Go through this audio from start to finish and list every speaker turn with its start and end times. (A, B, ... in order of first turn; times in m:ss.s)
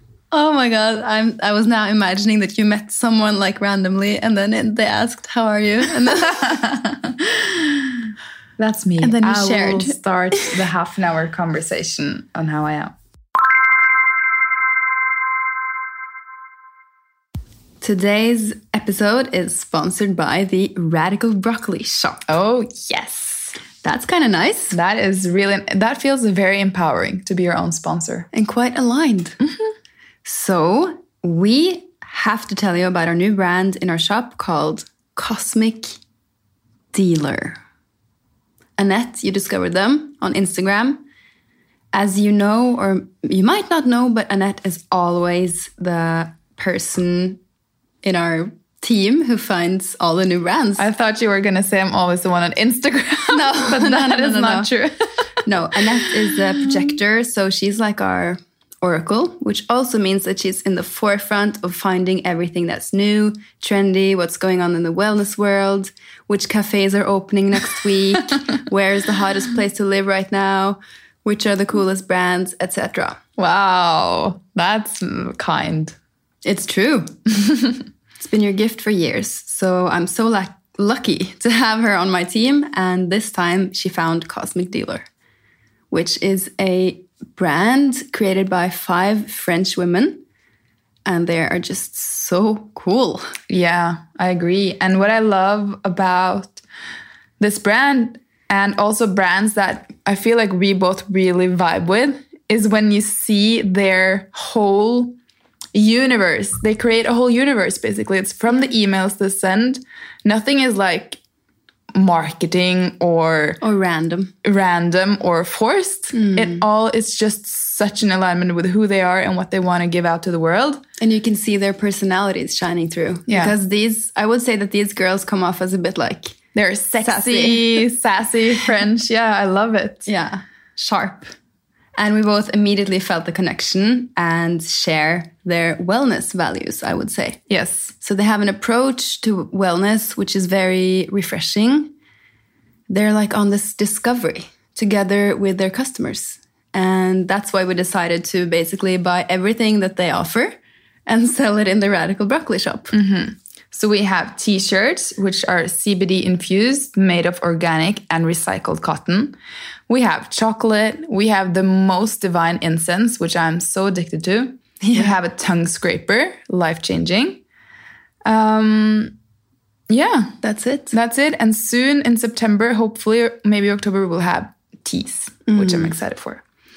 0:00.3-0:06.6 A
0:06.4-0:07.6 B
0:08.6-0:12.9 B
0:09.0-0:10.5 A
0:17.8-0:22.2 A
0:22.3-0:23.6 B
0:23.8-0:24.8 A
0:24.7-0:28.3 B
0:28.3-0:29.4 A
0:30.2-0:36.0 A
0:36.9-0:37.6 A
0:38.8-0:41.0 A
0:41.9-0:47.4 A
0:48.0-0:50.9 A
0:50.8-0:55.0 B
0:53.3-0:54.7 A
0:55.4-1:13.2 A
0:56.3-0:56.7 B
1:13.4-1:16.0 B
1:16.4-1:17.2 A
1:18.2-1:25.0 A
1:25.9-1:30.2 A
1:31.0-1:33.3 A
1:33.5-1:36.6 B
1:37.4-1:45.2 B
1:45.7-1:51.2 B
1:51.9-1:53.6 B
1:53.6-1:54.3 A
1:54.4-2:00.8 B
1:56.1-1:56.6 A
2:01.0-2:06.4 A
2:03.3-2:03.6 B
2:06.5-2:10.1 B
2:07.0-2:07.8 A
2:10.0-2:11.3 A
2:12.0-2:17.4 A
2:17.5-2:17.9 B
2:18.0-2:21.9 A
2:22.9-2:32.9 A
2:32.9-2:39.4 B
2:39.9-2:47.4 B
2:44.8-2:45.1 A
2:48.2-2:49.1 B
2:49.9-2:50.4 B
2:50.4-2:50.9 A
2:50.9-2:56.4 B
2:55.5-2:55.9 A